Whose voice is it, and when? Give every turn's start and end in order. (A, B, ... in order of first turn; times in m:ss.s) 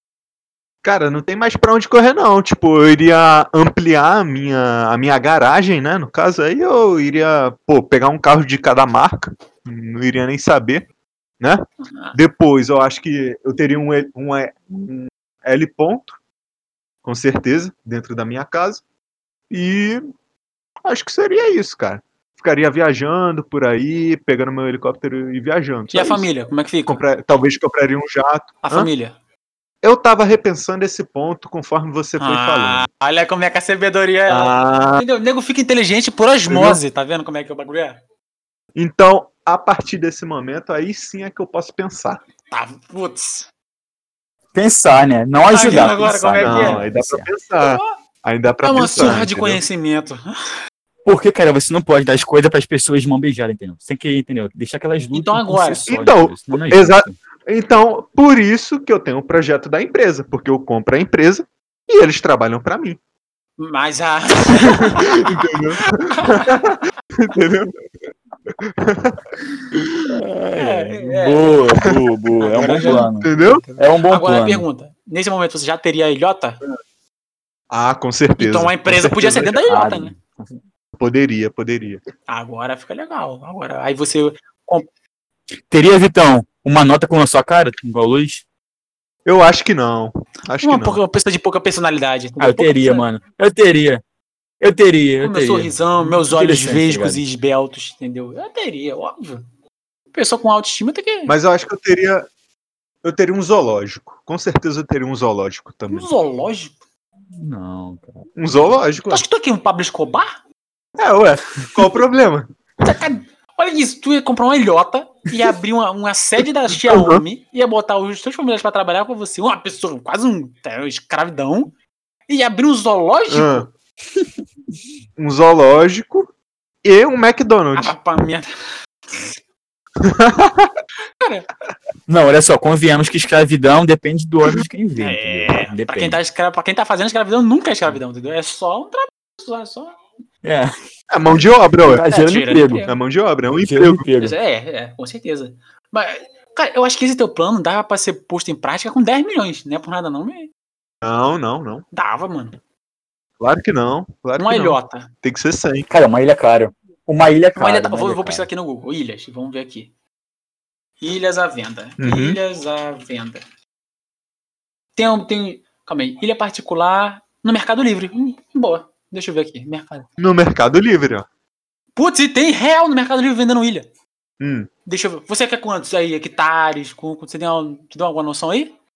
0:00.8-0:10.9 A
0:11.4-0:16.2 A
0:11.8-0:12.2 B
0:17.0-0:18.8 A
0:19.5-0:20.1 A
0:20.8-0:26.3 A
0:25.9-0:27.0 B
0:26.9-0:28.9 A
0:28.6-0:29.2 B
0:29.8-0:32.9 A
0:32.2-0:38.0 B
0:34.3-0:35.0 A
0:36.5-0:36.8 A
0:38.8-0:42.2 A
0:42.5-0:43.5 B
0:44.5-0:47.3 C
0:45.5-0:46.9 B
0:46.4-0:49.6 A
0:47.6-0:48.0 B
0:48.6-0:50.6 B
0:49.0-0:49.3 C
0:51.1-0:57.2 C
0:55.1-0:55.9 B
0:55.9-1:03.0 A
1:03.6-1:06.7 B
1:04.6-1:07.8 A
1:08.5-1:09.2 A
1:09.7-1:10.1 A
1:10.1-1:14.6 C
1:10.6-1:11.6 B
1:12.4-1:16.6 B
1:12.6-1:13.6 A
1:17.7-1:19.7 A
1:18.4-1:20.1 B
1:19.7-1:20.6 C
1:21.0-1:22.0 A
1:22.3-1:24.9 B
1:25.7-1:28.4 C
1:29.3-1:31.0 A
1:30.6-1:33.1 B
1:32.4-1:34.0 C
1:34.6-1:37.2 C
1:35.2-1:39.4 B
1:40.1-1:41.4 B
1:41.3-1:42.3 A
1:43.0-1:46.1 A
1:45.9-1:46.8 B
1:47.3-1:48.2 C
1:48.4-1:49.2 A
1:49.1-1:50.4 B
1:51.0-1:52.5 A
1:52.8-2:01.7 B
1:56.7-1:57.2 A
2:02.3-2:03.7 B
2:03.3-2:03.7 A
2:05.2-2:06.3 A
2:06.8-2:08.0 A
2:07.8-2:08.5 B
2:10.0-2:10.7 A
2:11.2-2:11.5 B
2:12.1-2:16.2 C
2:15.0-2:20.0 B
2:20.4-2:20.7 C
2:21.1-2:22.1 A
2:21.8-2:22.9 C
2:22.1-2:23.0 B
2:22.9-2:24.0 A
2:23.6-2:24.4 C
2:24.2-2:30.5 B
2:31.0-2:31.9 A
2:31.9-2:32.6 B
2:33.4-2:35.9 A
2:34.4-2:35.1 B
2:35.9-2:38.5 C
2:37.6-2:39.9 B
2:41.0-2:43.4 B
2:42.0-2:42.4 A
2:45.0-2:50.1 B
2:50.2-2:51.3 A
2:52.0-2:53.9 B
2:54.4-2:54.7 A
2:54.9-2:58.7 B